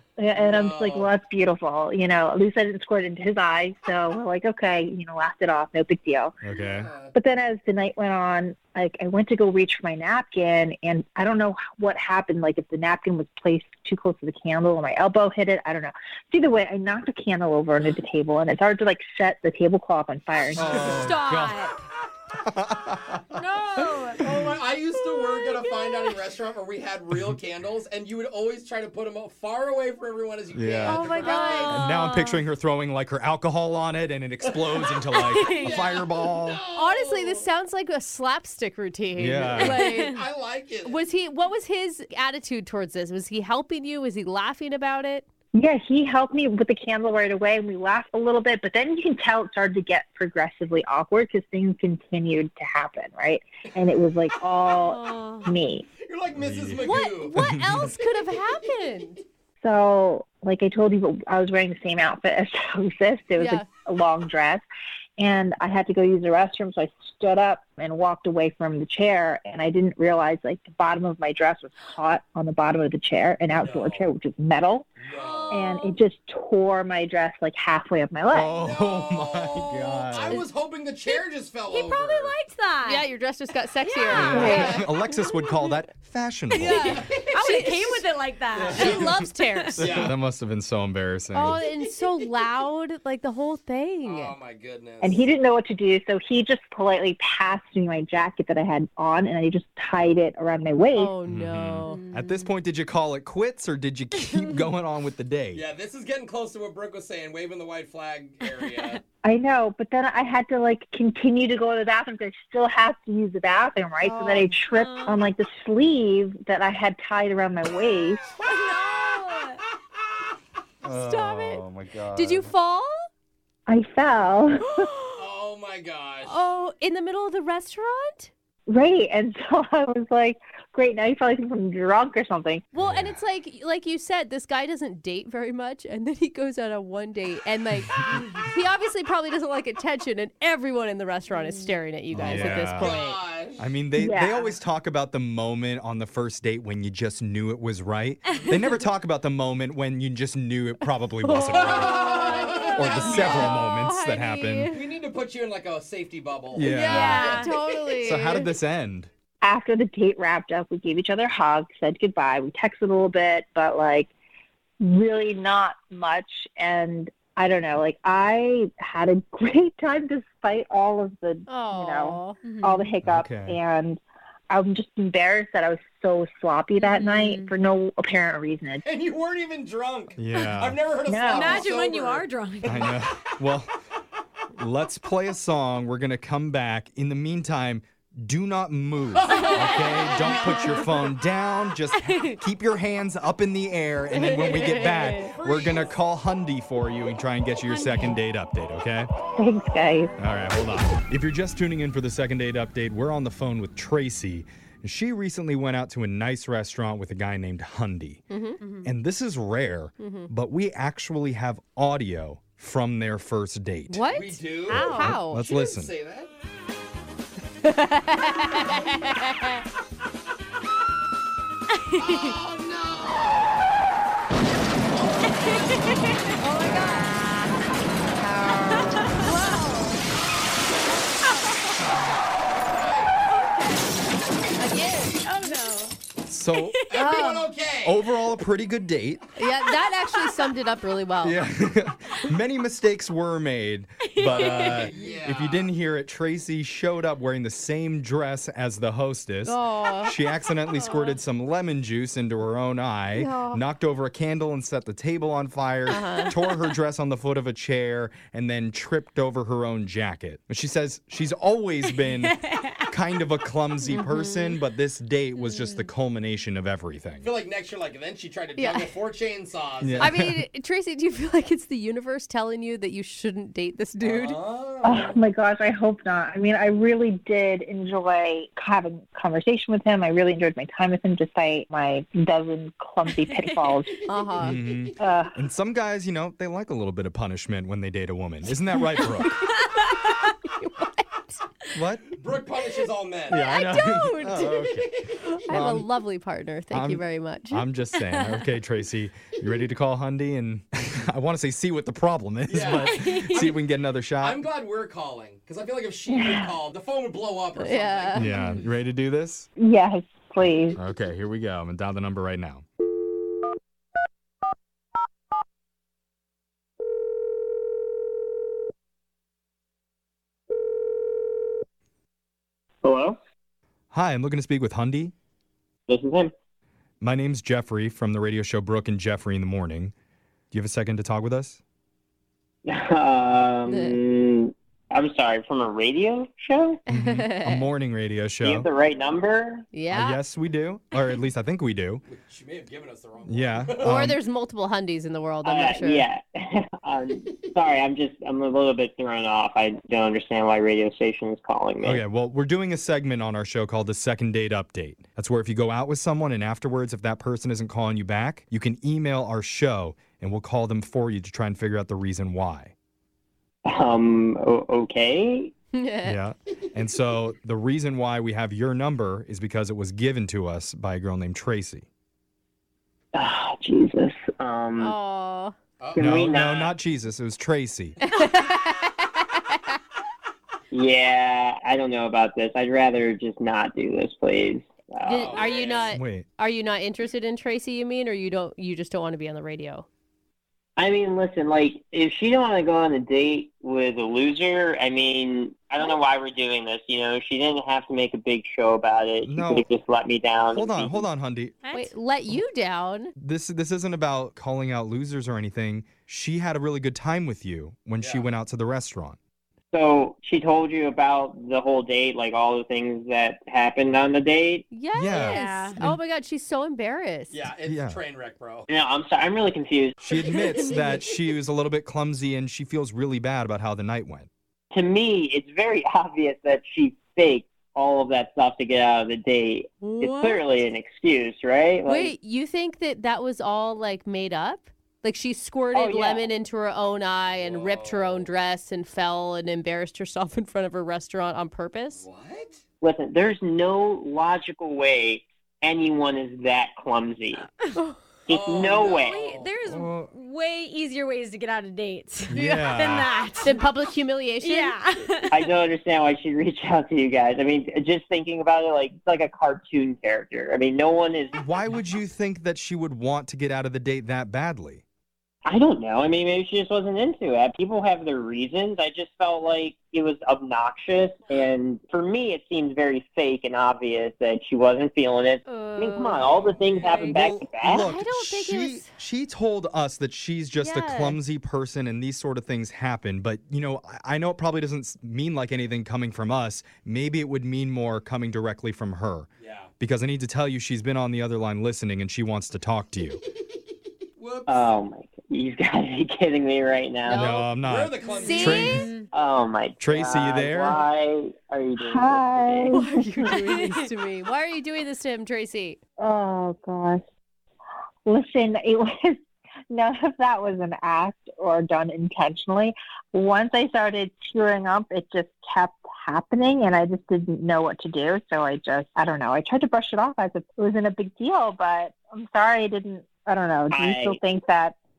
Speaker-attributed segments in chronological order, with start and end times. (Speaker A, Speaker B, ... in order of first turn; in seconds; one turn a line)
Speaker A: 0.2-6.4
Speaker B: 0.3-1.1
Speaker C: 6.4-6.9
Speaker B: 6.5-7.1
Speaker A: 7.1-21.1
Speaker C: 20.5-21.6
Speaker D: 20.7-21.9
Speaker C: 22.4-23.2
Speaker D: 23.4-24.2
Speaker B: 24.2-31.9
Speaker D: 25.1-26.2
Speaker C: 30.5-36.6
Speaker D: 30.8-32.4
Speaker E: 30.9-31.9
Speaker B: 34.4-37.5
Speaker D: 35.2-35.9
Speaker E: 36.7-40.2
Speaker C: 39.1-39.8
Speaker D: 39.5-40.2
Speaker B: 39.7-41.0
Speaker E: 40.8-45.2
Speaker A: 45.5-55.9
Speaker D: 54.7-55.6
Speaker B: 56.0-57.4
Speaker C: 56.3-58.0
Speaker E: 56.8-59.2
Speaker A: 59.6-64.6
Speaker E: 63.4-63.6
Speaker A: 65.2-74.9
Speaker B: 73.5-74.1
Speaker B: 75.0-75.6
Speaker D: 75.1-76.0
Speaker A: 75.5-78.5
Speaker C: 78.3-80.4
Speaker B: 78.5-82.4
Speaker D: 81.1-83.1
Speaker E: 82.8-85.1
Speaker D: 83.8-84.7
Speaker C: 84.1-87.0
Speaker B: 84.4-84.8
Speaker D: 86.5-89.8
Speaker E: 86.6-88.0
Speaker B: 86.7-87.5
Speaker C: 88.5-89.2
Speaker B: 88.7-89.2
Speaker E: 88.7-90.1
Speaker B: 89.8-90.1
Speaker C: 89.8-91.6
Speaker E: 91.3-94.3
Speaker B: 94.0-95.3
Speaker A: 95.0-101.1
Speaker E: 100.9-102.0
Speaker C: 101.3-105.6
Speaker D: 101.8-102.5
Speaker D: 104.1-104.7
Speaker B: 105.5-109.0
Speaker D: 108.6-109.0
Speaker A: 109.2-118.2
Speaker E: 114.0-114.4
Speaker D: 114.7-115.2
Speaker D: 118.4-119.6
Speaker C: 120.8-122.5
Speaker E: 120.8-121.6
Speaker E: 122.1-123.1
Speaker A: 123.7-124.9
Speaker E: 124.7-125.2
Speaker B: 125.1-126.4
Speaker E: 126.2-128.3
Speaker A: 128.7-132.6
Speaker E: 132.7-143.2
Speaker C: 132.8-133.2
Speaker D: 141.3-141.7
Speaker C: 142.1-143.0
Speaker B: 142.3-143.6
Speaker C: 143.6-152.0
Speaker A: 143.9-144.6
Speaker E: 151.2-154.9
Speaker B: 151.6-153.6
Speaker C: 152.8-154.7
Speaker B: 154.7-158.0
Speaker C: 156.5-157.3
Speaker E: 156.6-158.5
Speaker D: 156.8-157.5
Speaker C: 158.0-159.1
Speaker A: 159.4-164.1
Speaker A: 164.8-178.8
Speaker E: 171.5-172.3
Speaker D: 172.4-172.9
Speaker C: 173.0-173.6
Speaker D: 176.8-177.5
Speaker B: 178.8-183.0
Speaker C: 180.2-180.8
Speaker D: 180.3-180.6
Speaker A: 181.1-181.7
Speaker D: 181.3-182.9
Speaker C: 182.6-183.7
Speaker C: 184.6-199.1
Speaker B: 189.1-190.6
Speaker E: 189.4-190.9
Speaker D: 192.0-192.3
Speaker E: 194.1-195.3
Speaker B: 195.2-196.0
Speaker D: 197.6-198.2
Speaker A: 199.4-200.1
Speaker C: 200.2-208.2
Speaker E: 208.3-208.6
Speaker D: 208.6-208.9
Speaker C: 208.8-214.1
Speaker E: 210.0-210.3
Speaker E: 213.9-215.5
Speaker B: 214.1-216.3
Speaker C: 214.7-215.9
Speaker E: 217.6-219.6
Speaker D: 221.9-222.2
Speaker B: 222.0-223.6
Speaker B: 224.9-226.4
Speaker D: 225.2-227.3
Speaker E: 226.4-227.2
Speaker E: 228.2-230.1
Speaker D: 228.7-229.6
Speaker D: 231.2-231.8
Speaker B: 231.8-233.2
Speaker D: 233.3-233.9
Speaker B: 234.1-234.4
Speaker E: 234.6-235.8
Speaker D: 235.2-235.9
Speaker C: 236.2-236.8
Speaker D: 236.6-237.1
Speaker B: 236.9-238.1
Speaker E: 236.9-237.6
Speaker C: 237.8-239.2
Speaker E: 239.3-241.4
Speaker C: 241.2-267.3
Speaker D: 244.0-244.9
Speaker B: 244.2-245.7
Speaker E: 249.4-250.1
Speaker E: 253.1-253.6
Speaker E: 255.9-256.3
Speaker D: 262.0-262.8
Speaker E: 263.9-264.6
Speaker D: 265.4-265.9
Speaker B: 267.2-270.1
Speaker E: 268.6-268.9
Speaker C: 269.8-270.4
Speaker E: 270.0-274.4
Speaker B: 274.0-275.2
Speaker A: 274.8-284.2
Speaker D: 283.1-283.8
Speaker E: 284.0-284.6
Speaker C: 284.4-289.4
Speaker B: 284.5-284.9
Speaker A: 285.0-285.3
Speaker E: 289.0-289.6
Speaker E: 290.3-291.4
Speaker C: 291.7-292.1
Speaker B: 292.1-293.4
Speaker C: 293.3-295.9
Speaker E: 293.3-297.6
Speaker C: 296.7-304.4
Speaker D: 298.0-298.4
Speaker B: 302.5-303.6
Speaker D: 302.8-303.5
Speaker B: 304.2-308.3
Speaker A: 306.1-306.6
Speaker E: 307.6-308.3
Speaker C: 308.1-309.5
Speaker D: 308.3-308.6
Speaker A: 309.6-310.8
Speaker C: 310.7-312.6
Speaker F: 322.8-323.2
Speaker C: 323.9-325.1
Speaker F: 325.9-326.3
Speaker C: 327.0-329.9
Speaker C: 330.5-331.6
Speaker F: 332.7-336.8
Speaker E: 333.7-334.0
Speaker E: 336.9-337.7
Speaker C: 336.9-338.7
Speaker F: 338.4-339.7
Speaker E: 339.7-340.2
Speaker C: 339.9-342.0
Speaker B: 342.1-343.9
Speaker C: 343.2-344.2
Speaker E: 343.8-346.1
Speaker F: 345.4-352.0
Speaker C: 351.8-362.7
Speaker F: 363.7-365.5
Speaker E: 365.7-366.2
Speaker C: 366.0-371.9
Speaker F: 373.1-374.9
Speaker E: 374.8-375.6
Speaker B: 375.8-376.7
Speaker F: 375.9-376.7
Speaker C: 375.9-378.0
Speaker E: 378.0-379.2
Speaker F: 380.7-385.5
Speaker E: 385.0-389.8
Speaker B: 385.1-385.9
Speaker C: 385.9-386.2
Speaker F: 390.8-401.1
Speaker C: 399.2-399.7
Speaker C: 400.5-401.6
Speaker D: 401.6-401.9
Speaker E: 401.7-403.1
Speaker C: 403.2-409.2
Speaker B: 408.0-408.2
Speaker F: 409.7-414.7
Speaker E: 414.7-417.4
Speaker C: 414.9-416.0
Speaker D: 415.1-415.8
Speaker B: 417.3-418.7
Speaker C: 417.6-418.0
Speaker F: 418.7-420.1
Speaker C: 420.0-424.3
Speaker D: 420.1-421.2
Speaker F: 424.7-432.1
Speaker E: 429.8-430.4
Speaker E: 431.9-442.0
Speaker F: 435.7-436.3
Speaker B: 437.3-438.3
Speaker B: 442.0-442.6
Speaker F: 442.8-447.4
Speaker E: 447.8-448.0
Speaker F: 448.3-449.2
Speaker B: 448.3-449.5
Speaker D: 448.9-453.7
Speaker C: 449.6-450.1
Speaker C: 452.3-453.1
Speaker E: 453.4-454.8
Speaker D: 454.4-455.5
Speaker F: 455.3-461.3
Speaker C: 461.3-464.8
Speaker F: 465.4-477.9
Speaker D: 475.4-477.3
Speaker B: 476.2-477.1
Speaker C: 477.1-489.3
Speaker E: 477.7-478.9
Speaker E: 480.6-481.2
Speaker B: 489.4-489.7
Speaker C: 489.8-493.2
Speaker B: 494.2-494.7
Speaker F: 494.5-497.3
Speaker E: 497.1-497.5
Speaker C: 497.1-498.9
Speaker B: 497.6-498.9
Speaker E: 498.1-498.9
Speaker D: 498.2-499.1
Speaker F: 499.1-502.7
Speaker C: 499.8-500.8
Speaker A: 501.8-503.4
Speaker E: 502.7-505.8
Speaker D: 503.3-503.8
Speaker A: 506.0-507.0
Speaker A: 508.1-509.2
Speaker A: 509.7-524.7
Speaker F: 523.7-524.2